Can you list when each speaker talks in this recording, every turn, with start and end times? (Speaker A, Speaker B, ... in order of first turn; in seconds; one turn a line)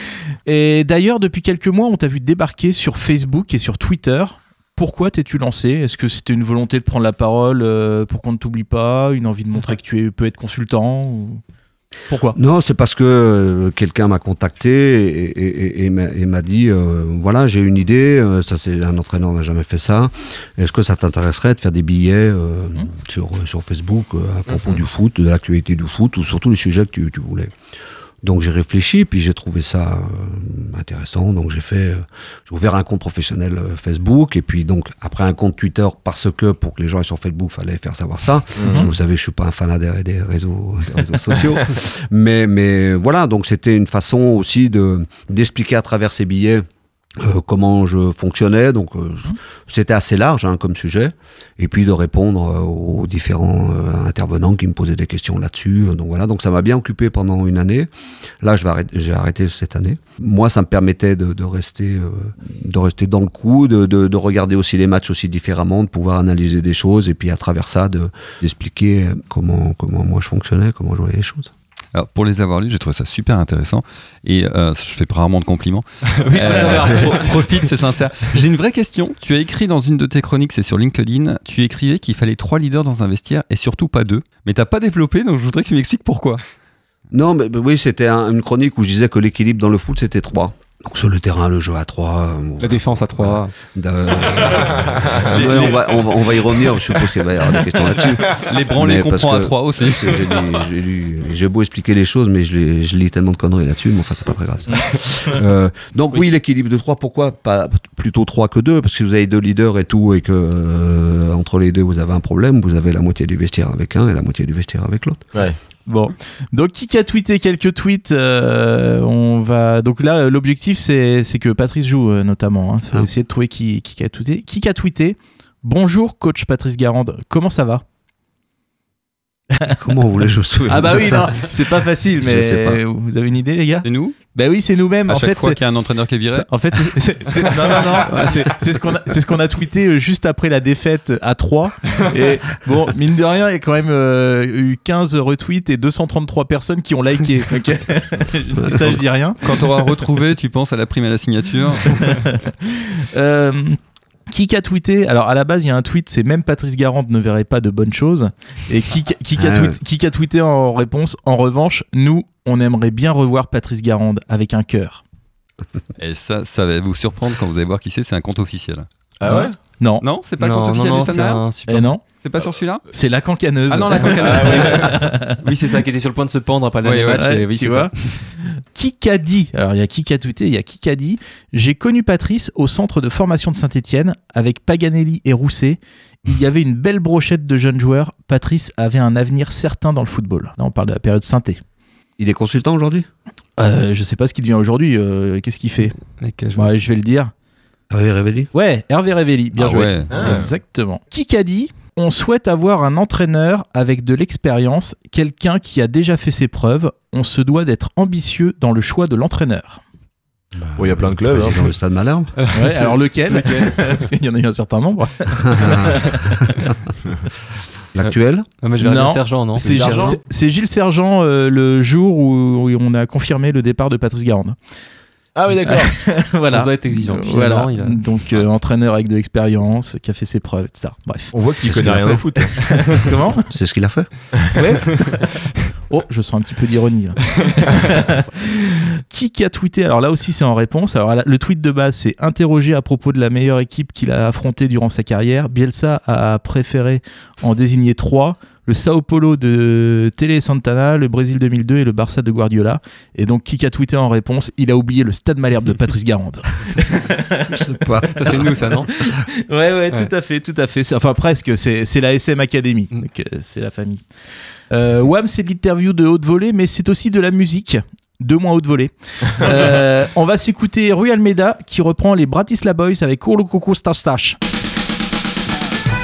Speaker A: 0.5-11.4
Speaker A: 12.1-12.3
Speaker B: 12.3-27.5
Speaker B: 28.2-46.6
Speaker C: 38.6-38.9
Speaker B: 47.2-57.9
Speaker B: 58.4-71.5
Speaker D: 71.9-86.4
Speaker E: 76.2-77.6
Speaker B: 87.1-115.2
Speaker E: 92.6-93.5
Speaker C: 94.8-95.2
Speaker D: 95.3-96.0
Speaker D: 98.3-100.6
Speaker A: 104.7-105.4
Speaker A: 115.8-127.8
Speaker B: 129.6-131.6
Speaker A: 130.7-135.6
Speaker B: 132.2-132.8
Speaker D: 133.8-134.2
Speaker D: 135.1-136.5
Speaker A: 136.3-149.8
Speaker D: 137.5-138.6
Speaker D: 148.6-152.2
Speaker A: 151.9-165.0
Speaker B: 159.3-159.8
Speaker D: 166.0-169.3
Speaker C: 169.2-169.6
Speaker A: 169.7-170.0
Speaker D: 170.0-171.5
Speaker E: 170.4-171.9
Speaker A: 171.7-172.1
Speaker D: 172.1-172.8
Speaker A: 172.9-175.4
Speaker D: 173.7-174.9
Speaker E: 174.0-177.9
Speaker C: 174.2-175.0
Speaker D: 176.8-177.2
Speaker A: 177.2-191.6
Speaker B: 192.2-193.1
Speaker A: 193.6-195.9
Speaker E: 196.2-196.8
Speaker A: 196.6-197.3
Speaker B: 197.9-198.5
Speaker A: 198.5-209.8
Speaker D: 199.5-200.4
Speaker C: 200.1-200.5
Speaker B: 210.5-212.3
Speaker C: 210.8-211.7
Speaker E: 212.4-213.5
Speaker A: 212.5-216.5
Speaker B: 215.5-215.9
Speaker B: 217.9-218.4
Speaker E: 218.6-219.7
Speaker A: 218.8-224.6
Speaker C: 219.6-220.2
Speaker C: 225.3-226.0
Speaker A: 225.7-231.3
Speaker E: 226.5-228.0
Speaker C: 231.3-232.9
Speaker B: 231.6-232.2
Speaker A: 232.4-233.4
Speaker B: 233.3-234.3
Speaker A: 234.6-257.6
Speaker B: 257.5-258.6
Speaker E: 258.1-258.9
Speaker A: 258.3-264.0
Speaker A: 264.7-274.4